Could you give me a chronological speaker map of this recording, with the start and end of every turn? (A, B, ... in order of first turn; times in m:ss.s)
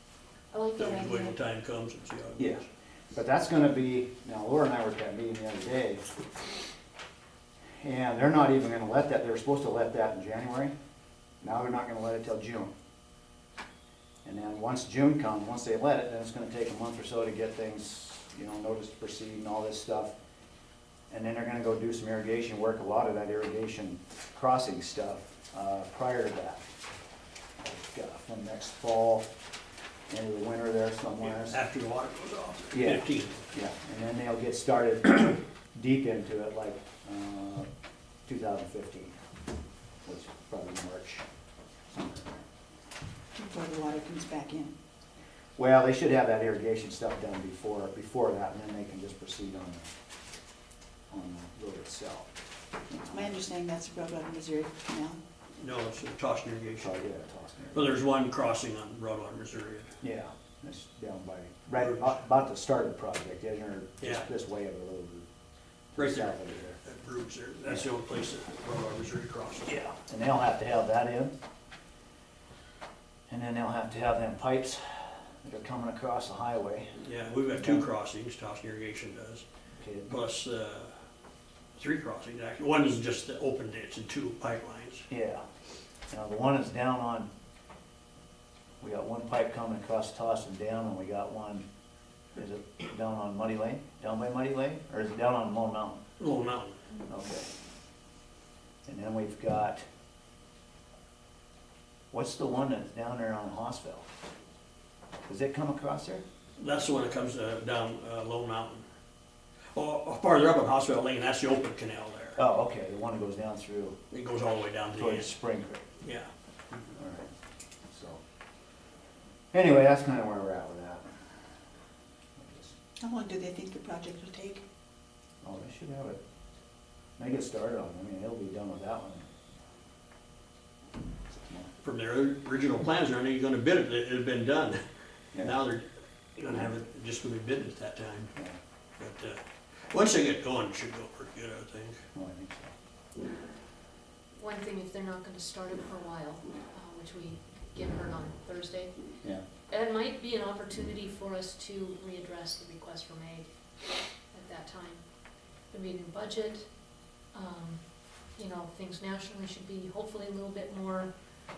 0:00.5-0:01.4 A
0:00.8-0:02.6 B
0:02.4-0:06.2 C
0:07.8-0:10.7 C
0:11.4-0:12.7 C
0:14.2-0:20.2 C
0:21.1-0:26.7 C
0:27.6-0:29.3 C
0:30.1-0:31.6 C
0:31.2-0:33.5 B
0:32.7-0:37.7 C
0:38.3-0:39.2 C
0:40.1-0:41.2 C
0:41.9-0:42.4 C
0:43.4-0:44.7 D
0:45.6-0:49.9 C
0:51.1-0:52.3 C
0:52.9-0:53.4 C
0:53.1-0:55.2 D
0:55.6-0:57.0 B
0:56.8-0:57.9 C
0:57.7-1:00.0 B
1:00.0-1:05.3 C
1:01.8-1:02.1 B
1:04.0-1:04.3 B
1:05.9-1:06.8 C
1:06.0-1:09.8 B
1:09.7-1:11.3 C
1:13.3-1:17.0 C
1:17.0-1:19.4 B
1:19.8-1:20.2 C
1:20.1-1:20.9 B
1:21.8-1:25.1 B
1:25.1-1:25.4 C
1:26.1-1:27.3 C
1:28.8-1:31.6 C
1:32.4-1:36.0 C
1:36.2-1:36.8 B
1:37.1-1:37.5 C
1:38.9-1:39.8 C
1:42.1-1:44.1 C
1:45.3-1:46.2 C
1:46.6-1:48.8 B
1:49.7-1:52.4 B
1:52.4-1:54.0 C
1:54.1-1:55.3 B
1:54.9-1:55.8 C
1:56.0-1:56.3 B
1:56.9-1:57.3 C
1:57.9-1:58.2 C
1:59.5-2:01.1 C
2:02.4-2:02.7 C
2:03.0-2:04.6 D
2:05.4-2:06.2 C
2:07.2-2:09.3 C
2:11.3-2:11.7 C
2:11.8-2:14.8 B
2:15.4-2:18.3 B
2:19.0-2:22.0 B
2:22.2-2:22.7 C
2:24.4-2:28.9 A
2:29.7-2:33.5 A
2:34.3-2:35.0 A
2:35.7-2:36.7 A
2:37.3-2:37.8 A
2:38.3-2:41.1 A